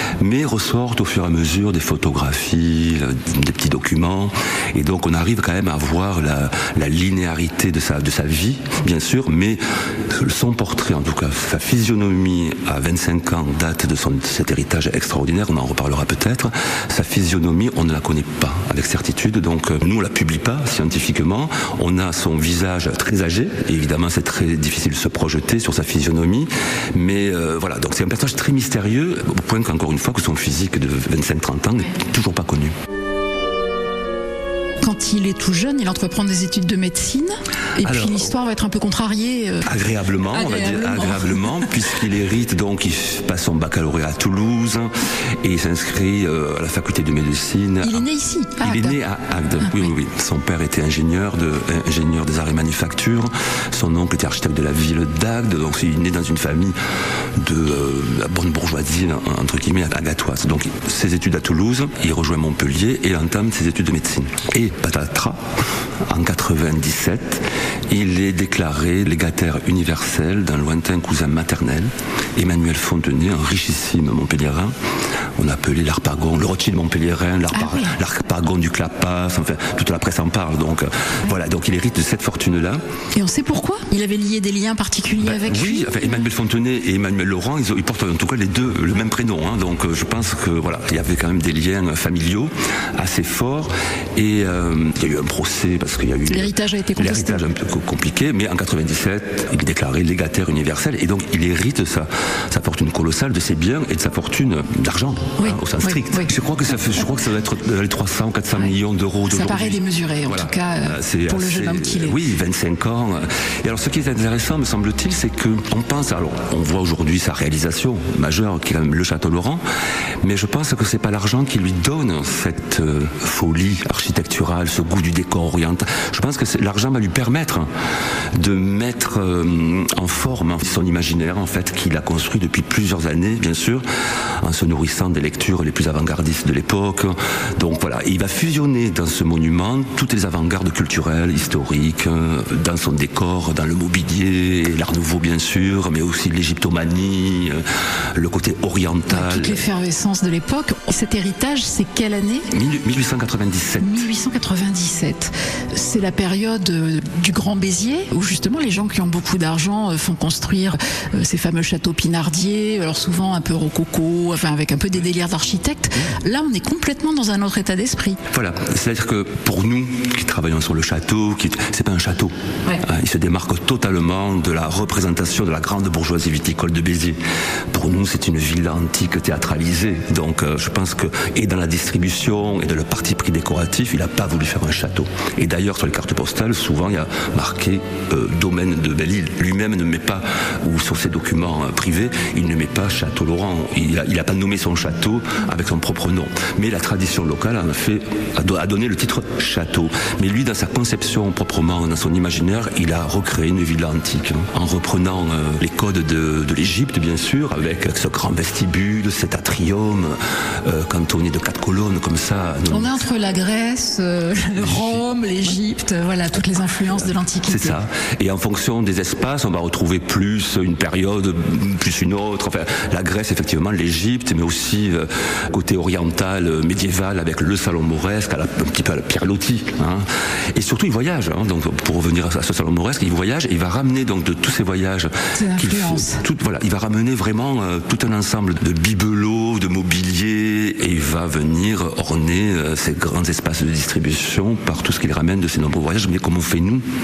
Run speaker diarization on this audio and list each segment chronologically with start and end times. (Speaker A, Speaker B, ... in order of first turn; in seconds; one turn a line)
Speaker A: 0.2-32.7
Speaker B: 34.8-39.7
Speaker A: 37.8-38.3
Speaker A: 39.7-44.9
Speaker B: 40.3-41.5
Speaker A: 45.4-48.0
Speaker B: 47.8-49.0
Speaker A: 48.6-56.7
Speaker B: 49.6-49.9
Speaker A: 57.4-65.4
Speaker A: 66.0-74.7
Speaker A: 75.4-82.8
Speaker B: 77.5-77.9
Speaker B: 83.1-86.2
Speaker A: 85.2-119.6
Speaker B: 96.3-97.4
Speaker B: 105.4-106.3
Speaker B: 109.3-112.2
Speaker A: 120.2-127.7
Speaker A: 128.3-133.8
Speaker A: 134.4-147.6
Speaker A: 148.1-149.6
Speaker B: 149.1-152.5
Speaker A: 152.5-154.0
Speaker B: 153.8-168.2
Speaker A: 168.3-177.2
Speaker A: 177.7-213.0
Speaker B: 212.7-217.8
Speaker A: 214.5-215.5
Speaker A: 216.9-246.8
Speaker B: 235.3-236.2